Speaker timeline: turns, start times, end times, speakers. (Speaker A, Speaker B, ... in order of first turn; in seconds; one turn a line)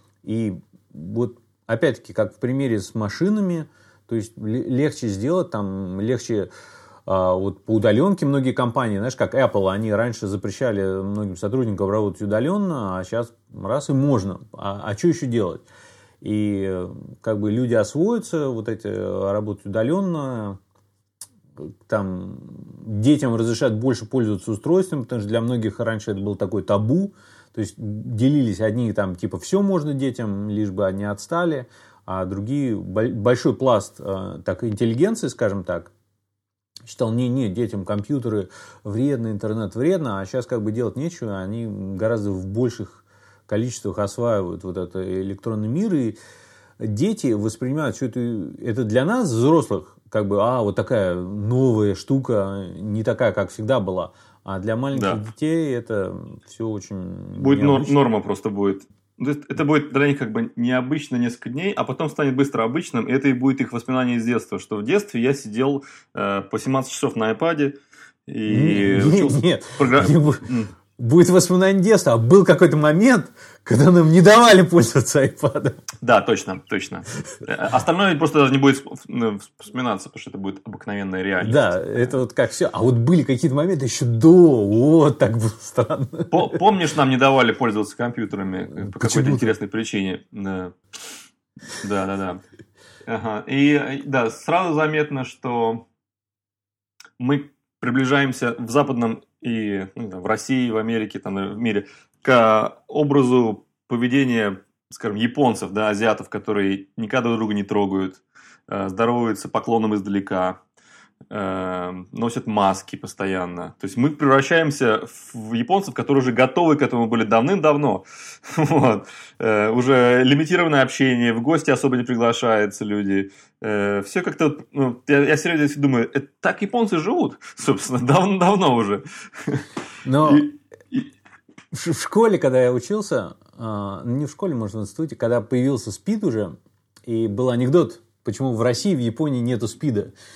Speaker A: 0.2-6.5
Speaker A: 7.1-15.7
Speaker A: 16.2-20.6
Speaker A: 21.6-35.9
Speaker A: 36.9-46.2
Speaker A: 46.8-58.0
Speaker B: 54.9-55.2
Speaker B: 57.4-67.8
Speaker B: 68.3-70.7
Speaker A: 68.5-75.8
Speaker B: 76.0-82.1
Speaker A: 81.4-86.6
Speaker B: 86.3-90.8
Speaker A: 88.8-89.5
Speaker B: 91.7-92.4
Speaker B: 93.1-95.9
Speaker B: 97.2-110.6
Speaker B: 111.3-129.7
Speaker A: 130.1-130.5
Speaker B: 130.2-131.1
Speaker A: 131.7-136.5
Speaker A: 137.1-140.1